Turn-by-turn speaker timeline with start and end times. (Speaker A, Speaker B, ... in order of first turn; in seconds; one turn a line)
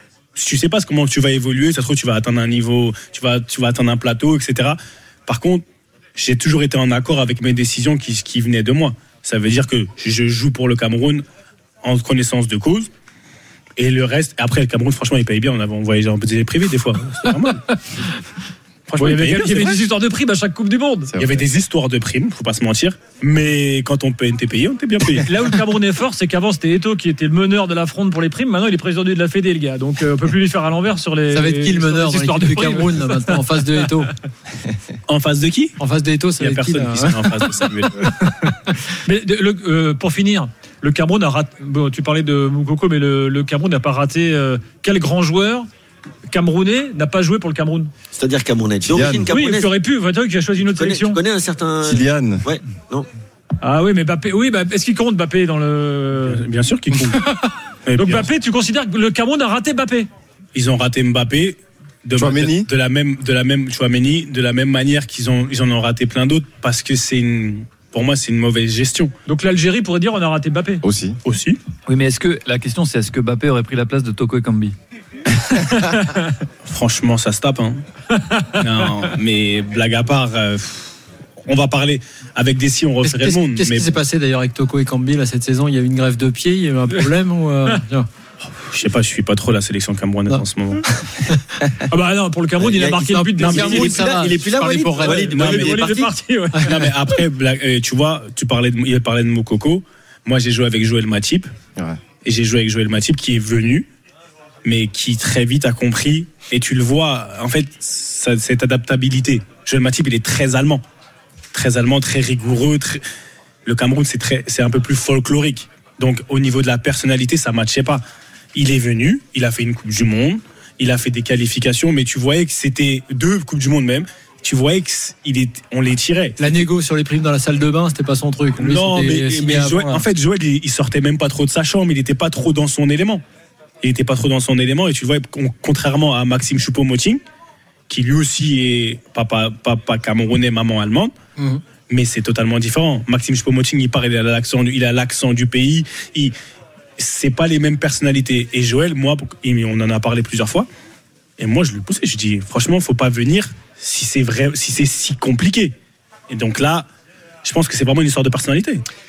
Speaker A: 0.4-5.6
Speaker A: 6.2-11.2
Speaker A: 11.8-12.9
Speaker A: 13.8-18.0
Speaker A: 18.9-19.8
Speaker B: 18.9-21.1
Speaker C: 21.1-21.5
Speaker A: 21.2-25.3
Speaker B: 25.2-33.4
Speaker D: 31.3-34.1
Speaker A: 35.1-35.8
Speaker D: 35.8-37.4
Speaker A: 36.4-38.1
Speaker B: 39.0-45.7
Speaker B: 46.3-47.9
Speaker E: 48.1-49.7
Speaker C: 48.9-49.3
Speaker B: 49.3-51.2
Speaker E: 50.6-53.1
Speaker C: 51.8-52.5
Speaker B: 53.6-56.4
Speaker A: 56.3-58.3
Speaker B: 58.0-60.1
Speaker A: 60.5-69.1
Speaker C: 62.1-62.7
Speaker B: 69.3-70.8
Speaker C: 70.8-71.2
Speaker A: 71.2-71.6
Speaker F: 71.9-74.8
Speaker B: 75.8-76.3
Speaker A: 76.7-77.8
Speaker B: 78.1-78.5
Speaker A: 78.5-80.9
Speaker A: 81.5-84.0
Speaker D: 83.0-88.1
Speaker A: 88.6-90.9
Speaker D: 91.0-91.4
Speaker B: 91.9-94.2
Speaker E: 92.6-96.1
Speaker D: 93.1-95.3
Speaker A: 93.4-93.8
Speaker B: 94.9-96.9
Speaker A: 95.3-96.0
Speaker A: 96.6-101.5
Speaker A: 102.2-103.9
Speaker A: 104.7-110.8
Speaker A: 111.5-113.0
Speaker A: 113.7-118.0
Speaker A: 118.5-126.7
Speaker D: 126.4-130.0
Speaker A: 128.6-133.2
Speaker A: 133.8-137.2
Speaker A: 137.9-141.1
Speaker A: 141.9-146.3
Speaker A: 147.0-150.7
Speaker A: 151.4-155.7
Speaker A: 156.3-156.9
Speaker A: 157.4-158.8